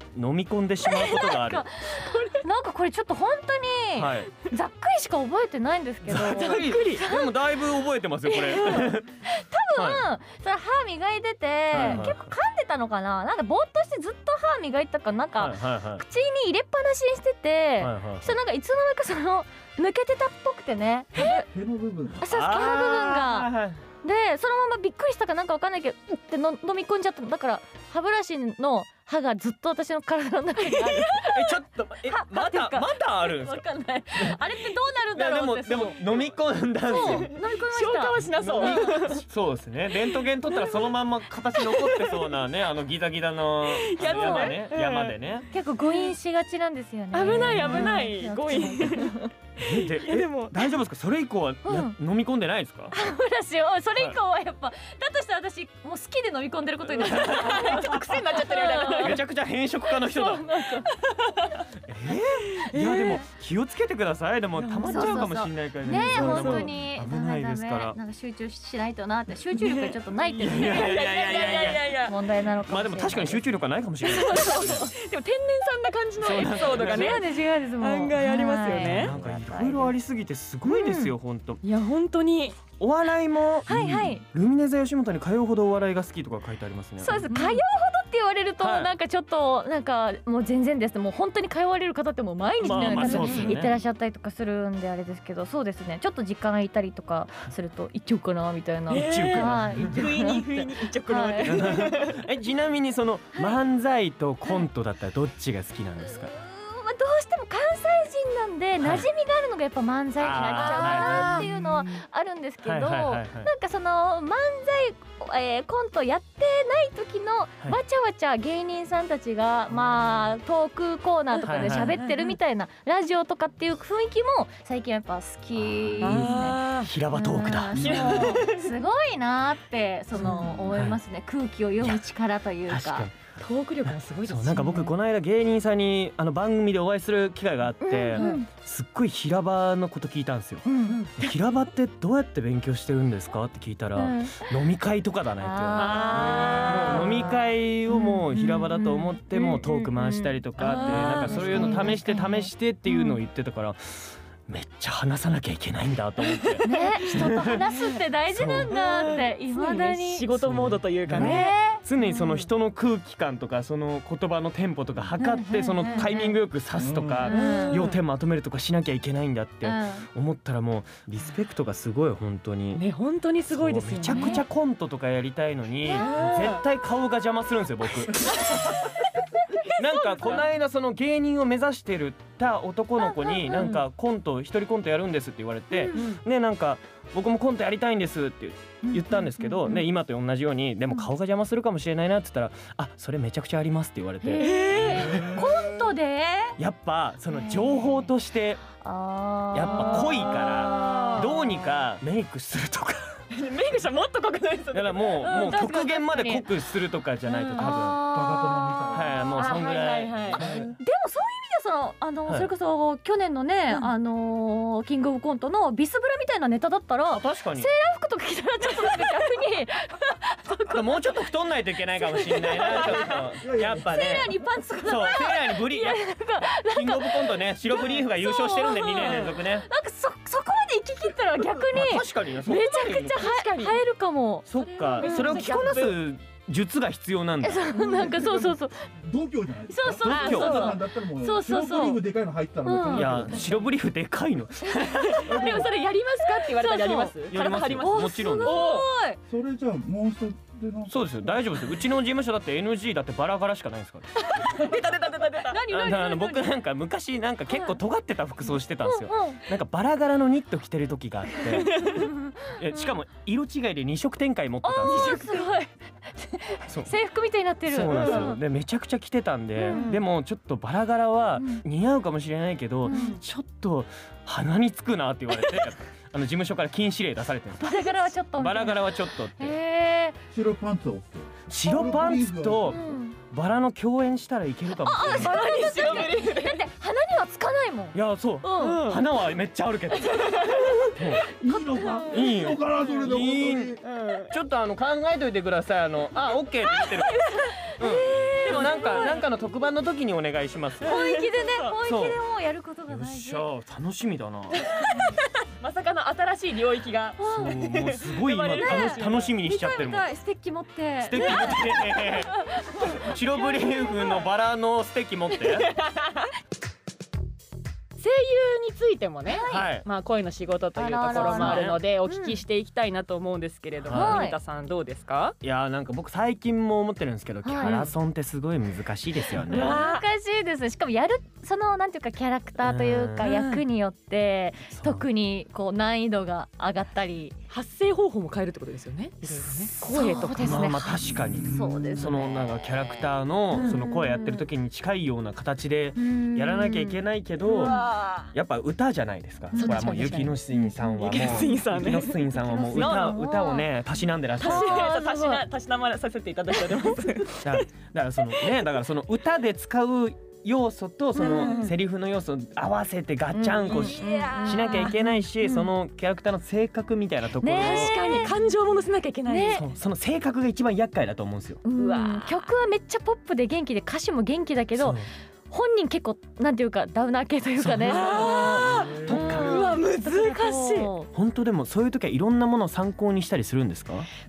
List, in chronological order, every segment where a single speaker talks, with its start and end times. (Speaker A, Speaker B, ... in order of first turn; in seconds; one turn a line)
Speaker A: 0.1-1.7
Speaker B: 0.8-7.5
Speaker C: 2.0-2.3
Speaker A: 4.0-4.3
Speaker A: 6.0-9.1
Speaker C: 6.1-7.0
Speaker B: 8.2-21.5
Speaker A: 9.7-10.0
Speaker A: 11.7-12.3
Speaker A: 15.4-16.0
Speaker A: 17.8-18.3
Speaker D: 21.2-22.2
Speaker B: 22.2-23.5
Speaker A: 22.3-23.8
Speaker B: 24.0-36.2
Speaker C: 30.6-31.1
Speaker A: 31.1-33.6
Speaker A: 35.1-37.3
Speaker B: 36.8-39.2
Speaker C: 36.9-39.2
Speaker A: 38.3-45.5
Speaker C: 40.1-40.8
Speaker C: 41.5-42.3
Speaker C: 43.7-45.1
Speaker B: 44.0-44.6
Speaker B: 45.5-49.3
Speaker C: 45.8-46.1
Speaker C: 47.1-50.7
Speaker A: 47.2-47.9
Speaker A: 49.6-52.9
Speaker B: 51.6-52.0
Speaker B: 52.9-59.2
Speaker A: 56.9-57.9
Speaker C: 57.0-59.2
Speaker A: 58.9-60.5
Speaker B: 59.9-60.9
Speaker C: 60.9-61.6
Speaker A: 61.9-68.0
Speaker C: 62.5-63.2
Speaker C: 64.6-65.3
Speaker B: 64.8-73.4
Speaker C: 66.0-66.7
Speaker C: 69.5-70.0
Speaker A: 70.4-72.0
Speaker C: 70.5-72.2
Speaker A: 72.7-74.9
Speaker C: 74.0-77.3
Speaker B: 74.5-74.8
Speaker A: 76.2-77.2
Speaker B: 76.7-79.9
Speaker C: 77.8-79.1
Speaker A: 78.8-81.6
Speaker B: 80.7-81.1
Speaker C: 81.6-82.6
Speaker A: 82.8-87.3
Speaker B: 83.7-84.2
Speaker D: 83.7-84.1
Speaker B: 87.0-101.9
Speaker C: 87.2-87.6
Speaker A: 88.6-88.9
Speaker A: 92.6-93.8
Speaker C: 92.7-93.5
Speaker A: 98.9-100.0
Speaker C: 98.9-102.2
Speaker A: 101.4-106.3
Speaker B: 106.0-133.1
Speaker A: 108.8-109.1
Speaker A: 110.2-111.5
Speaker C: 110.5-111.9
Speaker A: 112.6-113.5
Speaker C: 121.3-122.3
Speaker A: 121.4-122.0
Speaker A: 126.0-128.3
Speaker C: 126.0-126.9
Speaker D: 127.7-128.4
Speaker C: 127.8-128.7
Speaker A: 130.2-131.0
Speaker C: 130.2-130.6
Speaker A: 132.7-133.1
Speaker C: 133.4-134.9
Speaker A: 133.8-157.6
Speaker B: 137.8-138.5
Speaker C: 138.2-138.4
Speaker B: 140.6-141.0
Speaker C: 140.9-141.2
Speaker B: 143.9-144.5
Speaker B: 145.4-153.2
Speaker C: 145.7-147.3
Speaker C: 150.6-152.0
Speaker C: 156.3-156.9
Speaker B: 156.6-160.3
Speaker C: 157.6-158.0
Speaker A: 158.3-158.7
Speaker C: 158.7-161.5
Speaker A: 160.3-172.8
Speaker B: 161.1-162.3
Speaker B: 165.2-166.3
Speaker C: 165.8-166.2
Speaker D: 166.8-167.3
Speaker B: 167.2-167.9
Speaker C: 167.2-168.0
Speaker B: 169.6-170.1
Speaker C: 172.7-174.4
Speaker A: 173.5-178.5
Speaker B: 174.1-174.4
Speaker C: 175.9-176.6
Speaker C: 179.7-180.4
Speaker A: 179.7-195.5
Speaker B: 183.1-183.7
Speaker C: 183.5-183.8
Speaker B: 185.7-186.1
Speaker C: 185.9-186.2
Speaker B: 188.8-189.8
Speaker B: 194.2-196.6
Speaker C: 194.4-195.2
Speaker D: 195.1-195.4
Speaker A: 196.6-198.6
Speaker B: 197.3-197.9
Speaker B: 198.8-201.7
Speaker A: 199.5-203.2
Speaker C: 199.7-201.3
Speaker C: 203.3-205.6
Speaker A: 204.7-208.0
Speaker B: 205.2-206.5
Speaker B: 207.5-209.7
Speaker D: 208.0-209.3
Speaker A: 208.9-210.8
Speaker C: 209.3-210.4
Speaker B: 210.3-221.2
Speaker A: 217.1-217.7
Speaker A: 220.7-229.7
Speaker B: 222.0-223.2
Speaker C: 222.6-223.2
Speaker D: 223.4-224.3
Speaker B: 223.7-235.6
Speaker C: 228.9-229.3
Speaker A: 231.7-233.3
Speaker C: 233.1-233.8
Speaker A: 234.5-237.7
Speaker C: 235.0-236.0
Speaker B: 237.4-238.9
Speaker D: 237.8-243.7
Speaker B: 239.7-242.0
Speaker A: 240.0-240.7
Speaker C: 240.1-240.8
Speaker B: 242.6-243.5
Speaker A: 242.9-245.3
Speaker B: 244.8-247.2
Speaker C: 245.1-248.9
Speaker D: 245.3-245.7
Speaker A: 247.3-248.7
Speaker B: 247.8-249.2
Speaker D: 249.2-251.0
Speaker A: 250.9-254.2
Speaker C: 254.2-255.6
Speaker B: 255.5-256.5
Speaker A: 255.7-265.2
Speaker B: 258.8-259.4
Speaker C: 261.5-262.1
Speaker B: 261.8-262.5
Speaker B: 264.6-268.4
Speaker C: 264.8-265.3
Speaker A: 266.7-266.9
Speaker A: 267.7-279.5
Speaker C: 267.9-268.3
Speaker B: 269.6-269.9
Speaker C: 269.7-270.0
Speaker B: 271.4-271.6
Speaker B: 272.9-273.2
Speaker B: 277.6-280.2
Speaker D: 280.3-282.9
Speaker A: 281.5-285.4
Speaker B: 281.7-283.2
Speaker B: 284.8-288.8
Speaker C: 285.0-286.6
Speaker A: 287.9-291.3
Speaker C: 288.6-289.1
Speaker C: 290.0-290.9
Speaker D: 291.2-293.8
Speaker B: 291.4-292.1
Speaker A: 292.1-293.8
Speaker C: 292.8-293.0
Speaker C: 293.8-294.3
Speaker A: 294.3-297.2
Speaker B: 296.6-299.2
Speaker A: 297.8-300.9
Speaker C: 297.8-299.2
Speaker C: 300.8-301.8
Speaker B: 300.8-303.4
Speaker A: 301.8-302.2
Speaker A: 302.9-304.6
Speaker C: 304.6-309.4
Speaker B: 307.2-307.6
Speaker A: 307.3-310.1
Speaker B: 308.5-313.9
Speaker A: 311.0-315.7
Speaker C: 311.2-311.7
Speaker C: 315.4-316.3
Speaker C: 318.0-325.3
Speaker B: 319.3-319.7
Speaker A: 319.5-319.8
Speaker B: 320.7-322.4
Speaker A: 321.1-321.8
Speaker A: 323.8-324.2
Speaker B: 323.9-324.4
Speaker A: 325.4-329.8
Speaker B: 327.4-327.9
Speaker C: 329.5-330.0
Speaker B: 329.5-337.4
Speaker A: 332.6-333.3
Speaker C: 333.2-333.6
Speaker A: 334.7-335.0
Speaker C: 337.5-340.8
Speaker B: 339.2-342.9
Speaker A: 340.4-354.9
Speaker D: 341.1-342.1
Speaker C: 343.5-343.8
Speaker B: 343.5-344.4
Speaker B: 345.9-347.8
Speaker C: 347.4-348.3
Speaker C: 349.5-353.3
Speaker B: 349.5-350.7
Speaker B: 352.3-353.7
Speaker C: 354.4-357.7
Speaker B: 354.4-355.4
Speaker A: 357.4-368.3
Speaker C: 358.2-358.6
Speaker B: 361.1-361.7
Speaker C: 361.2-361.7
Speaker B: 363.3-365.7
Speaker C: 363.6-365.0
Speaker B: 367.4-368.3
Speaker C: 367.6-369.6
Speaker B: 369.3-369.6
Speaker A: 369.5-371.6
Speaker B: 371.6-381.1
Speaker C: 371.8-372.5
Speaker A: 374.8-375.1
Speaker A: 377.6-379.7
Speaker C: 377.9-380.9
Speaker A: 381.1-384.1